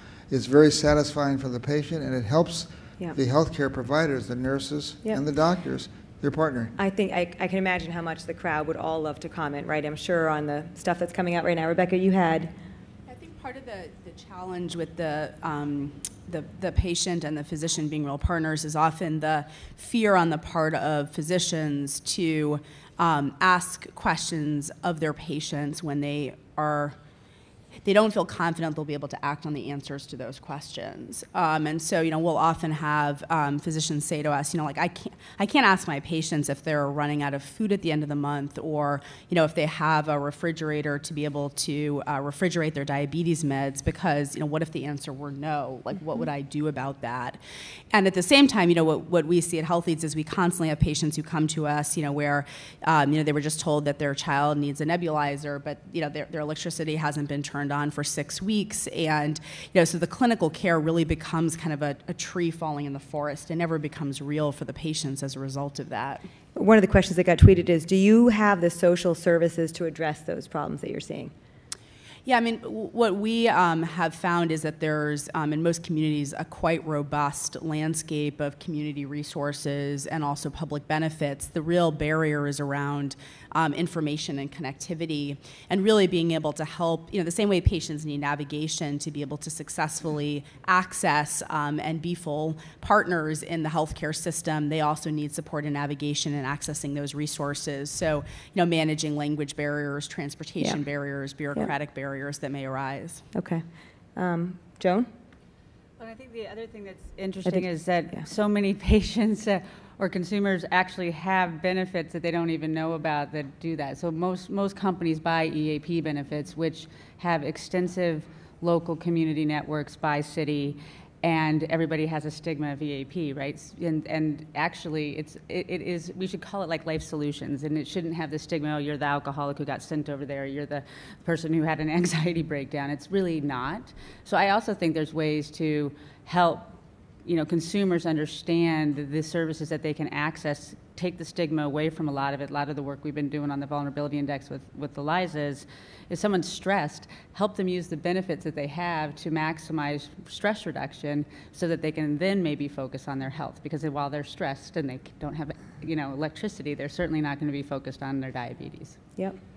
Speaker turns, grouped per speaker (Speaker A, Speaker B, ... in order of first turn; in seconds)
Speaker A: 0.3-6.8
Speaker B: 6.8-12.5, 66.6-71.3, 103.3-103.7, 104.2-105.1
Speaker C: 13.1-27.0, 27.8-47.4, 47.9-66.2, 72.3-103.2
Speaker D: 106.0-136.7, 137.2-159.0